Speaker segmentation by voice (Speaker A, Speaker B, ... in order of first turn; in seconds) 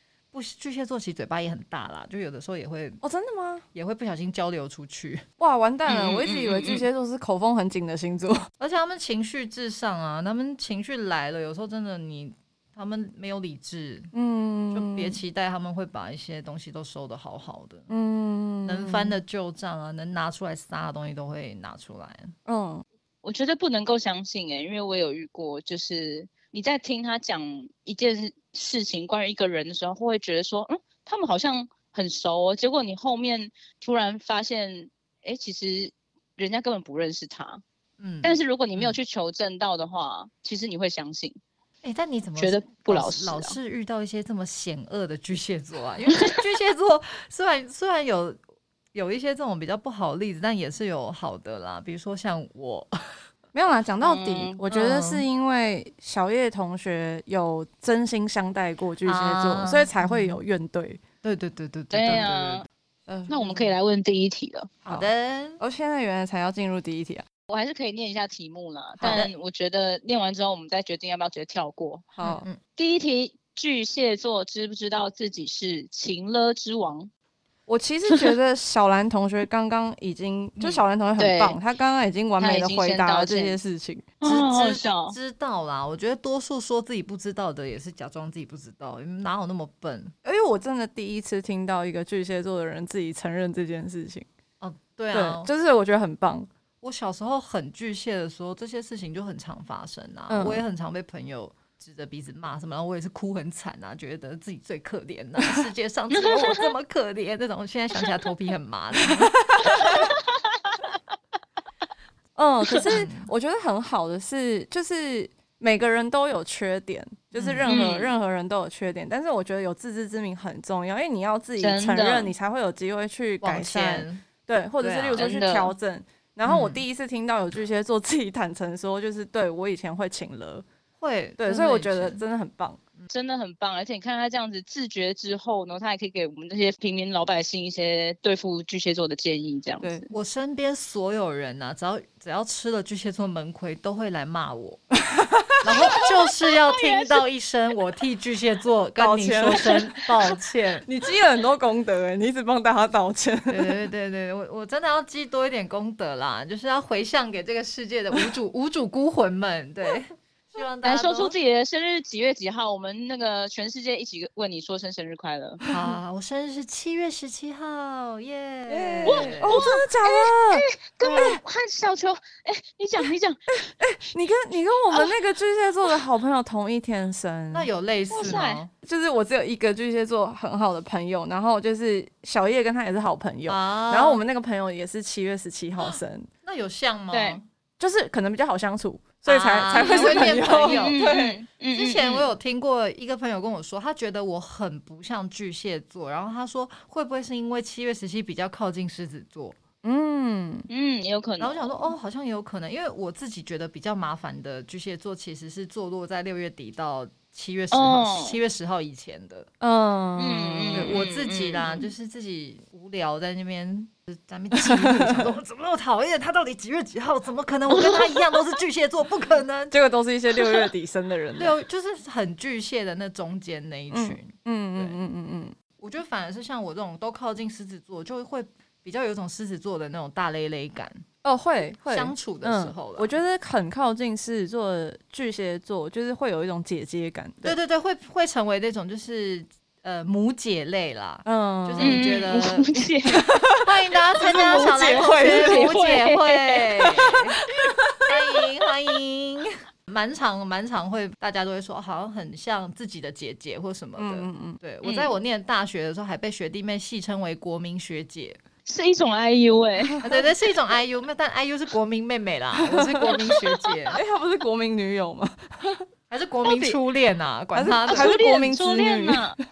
Speaker A: 0.3-3.0, 3.7-5.2, 8.6-14.1, 14.7-17.9, 18.6-22.4, 38.0-39.0, 41.8-48.4, 48.9-53.2, 54.7-55.2, 59.0-60.4, 61.2-62.6, 64.8-65.6, 69.0-69.3, 72.2-72.6, 80.6-80.8, 84.2-90.1, 94.6-95.5, 96.8-109.4, 112.9-113.3, 117.3-117.8, 123.4-124.2, 124.8-125.3, 126.5-126.8, 131.0-132.2, 140.1-144.8, 145.6-150.9, 153.5-161.4, 165.7-169.7, 177.5-178.7, 183.5-184.2, 186.4-187.5, 189.2-191.1, 191.7-199.6, 201.4-209.5, 210.7-219.8, 221.4-225.0, 225.8-231.0, 231.9-233.2, 237.4-242.7, 243.6-247.4, 248.1-258.4, 260.0-264.0, 266.1-268.2
Speaker B: 3.0-3.6, 5.4-8.5, 14.1-15.2, 17.9-19.2, 22.5-22.8, 53.5-61.0, 63.1-63.7, 65.6-67.2, 72.2-72.5, 77.7-84.1, 90.2-94.3, 95.1-96.5, 100.3-100.6, 109.0-110.0, 112.4-130.7, 131.4-132.8, 139.8-140.1, 145.1-145.6, 149.0-150.1, 150.8-153.8, 165.6-165.9, 168.7-171.4, 173.6-177.7, 178.8-186.3, 187.8-191.4, 199.8-200.7, 209.6-210.9, 214.6-215.3, 219.7-221.6, 223.9-225.6, 231.2-237.6, 241.2-242.1, 243.1-245.8, 247.6-248.0, 254.0-254.6, 262.7-265.9, 267.5-269.4
Speaker C: 5.9-6.9, 23.2-37.6, 38.2-41.4, 42.4-43.6, 46.1-46.4, 54.0-54.6, 61.9-62.6, 63.3-64.7, 67.5-72.1, 72.8-77.1, 81.2-81.6, 82.4-83.6, 84.2-85.2, 106.1-106.7, 109.7-110.9, 117.7-118.1, 121.6-122.3, 125.2-125.7, 133.1-140.1, 145.7-147.2, 160.8-165.6, 169.1-173.4, 178.1-178.6, 187.1-187.4, 189.8-192.3, 200.7-201.9, 207.7-208.4, 210.2-211.9, 217.7-218.5, 241.8-243.2, 244.2-247.1, 247.6-248.2, 254.8-255.2, 258.7-260.1, 267.9-269.4